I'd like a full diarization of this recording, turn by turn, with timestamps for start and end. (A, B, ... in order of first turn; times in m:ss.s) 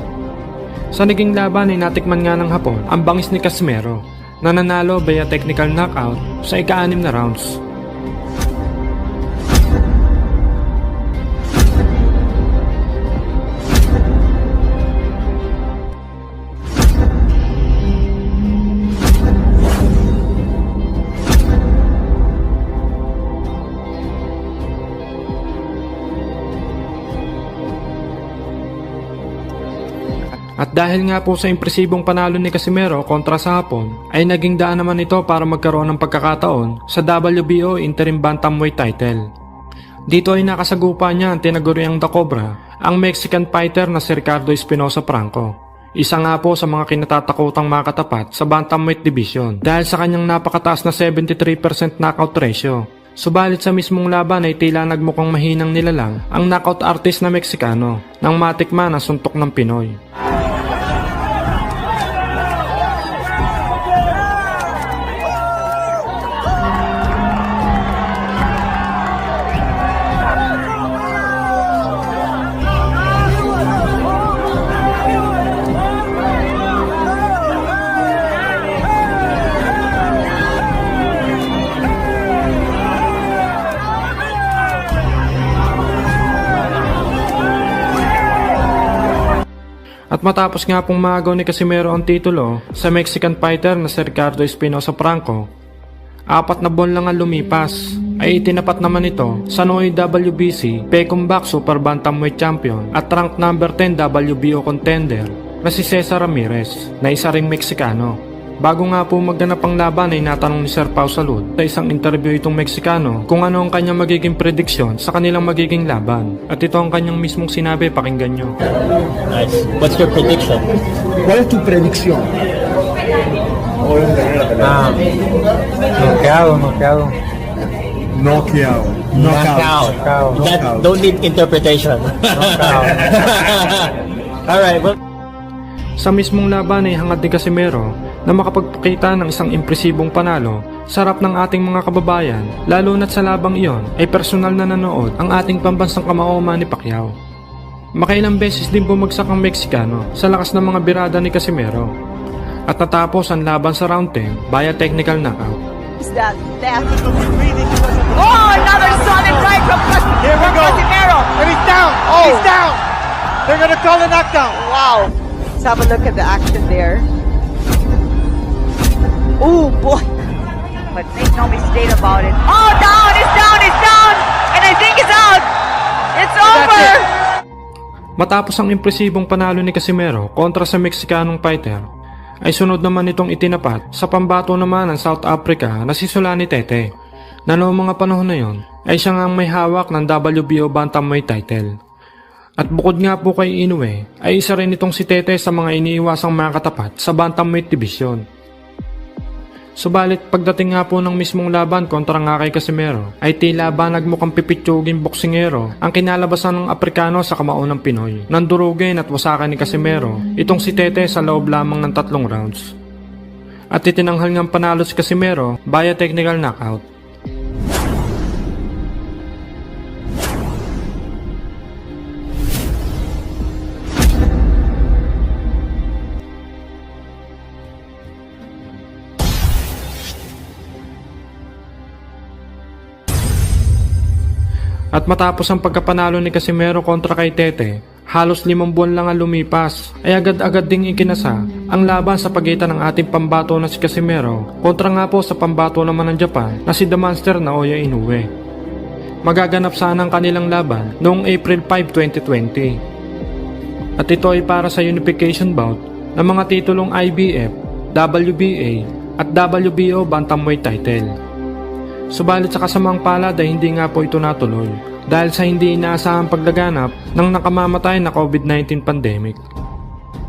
0:00.9-0:07.6 A
0:30.6-0:39.3 A
0:40.1-1:00.0 A
1:30.1-1:35.5 A
1:36.3-1:58.6 A
1:59.3-2:00.6 B
2:01.2-2:02.3 C
2:03.9-2:04.8 C
2:08.1-2:10.9 C
2:09.1-2:13.7 B
2:14.5-2:14.9 B
2:16.0-2:27.1 A
2:28.0-2:31.9 A
2:32.7-2:35.6 A
2:36.0-2:37.0 D
2:36.9-2:39.6 E
2:38.1-2:41.4 D
2:40.2-2:42.8 E
2:42.0-2:42.5 D
2:43.5-2:44.5 E
2:44.4-2:47.1 D
2:49.4-2:50.1 D
2:50.9-2:55.5 D
2:56.1-2:57.1 D
2:58.2-3:01.8 A
3:02.4-3:06.8 A
3:07.5-3:11.7 A
3:12.6-3:18.2 A
3:19.8-3:32.7 A
3:33.7-3:36.8 A
3:54.9-4:08.3 A
4:09.2-4:12.8 A
4:14.0-4:21.1 A
4:22.1-4:29.4 A